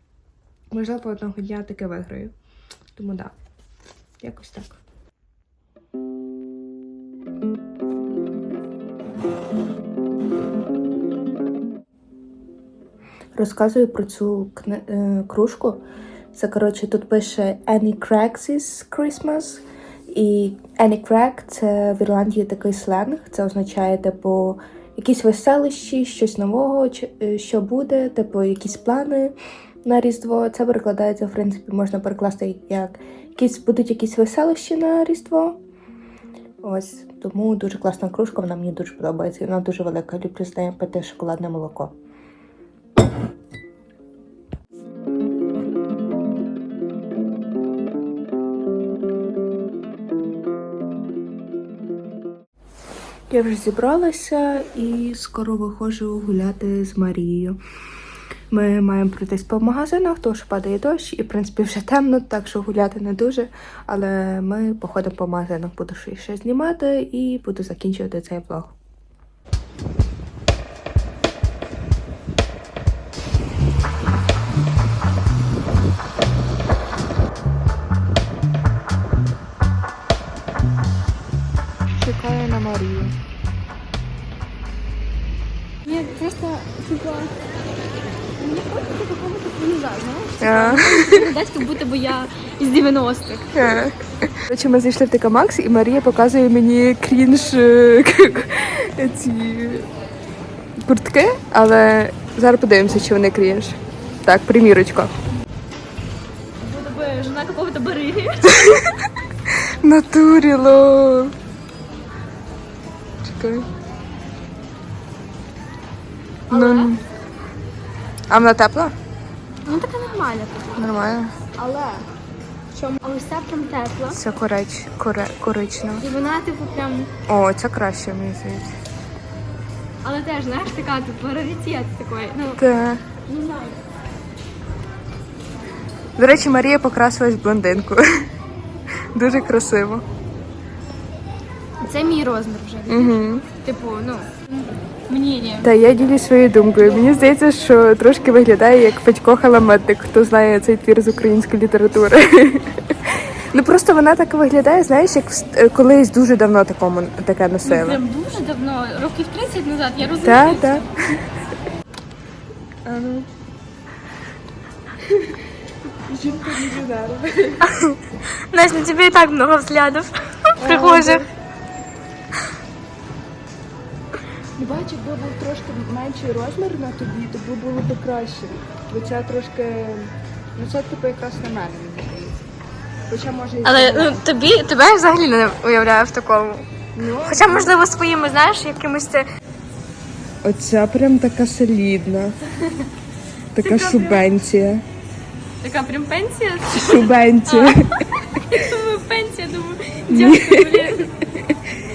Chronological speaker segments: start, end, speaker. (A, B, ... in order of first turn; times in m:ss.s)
0:00.7-0:02.3 A
0:03.0-0:03.3 A
0:04.2-0:04.8 A
0:13.4-0:35.6 A
0:36.6-0:41.9 A
0:53.3-0:57.6 A
0:58.5-1:08.8 A
1:21.9-1:23.2 A
1:25.8-1:27.3 B
1:28.4-1:33.5 B
1:30.4-1:31.3 A
1:33.5-1:39.9 A
1:40.8-1:45.1 A
1:46.6-1:48.8 B
1:48.5-1:48.9 A
1:49.8-1:51.4 A
1:53.2-1:53.7 A
1:56.5-1:56.9 B
1:56.5-1:57.0 A
1:58.3-1:59.0 A
1:59.6-2:01.0 B
2:00.8-2:01.3 A
2:01.6-2:02.1 B
2:02.7-2:04.2 B
2:04.1-2:06.0 A
2:06.0-2:07.1 B
2:07.3-2:08.7 A
2:10.0-2:12.6 B
2:12.6-2:13.0 A
2:13.3-2:13.8 B
2:16.2-2:18.3 A
2:19.1-2:20.0 A
2:21.8-2:25.7 B
2:22.9-2:23.5 A
2:25.6-2:38.0 A
2:26.8-2:27.3 B
2:37.6-2:40.9 B
2:40.2-2:41.2 A
2:42.9-2:43.3 A
2:46.1-2:47.7 A
2:48.5-2:51.2 B
2:50.6-2:51.3 A
2:54.6-3:02.4 A
3:03.1-3:04.3 A
3:03.6-3:06.7 B
3:07.0-3:07.7 A
3:07.2-3:09.3 B
3:10.4-3:12.4 A
3:13.6-3:14.8 A
3:13.6-3:14.3 B
3:15.6-3:21.1 B
3:16.7-3:18.0 A
3:20.1-3:21.6 A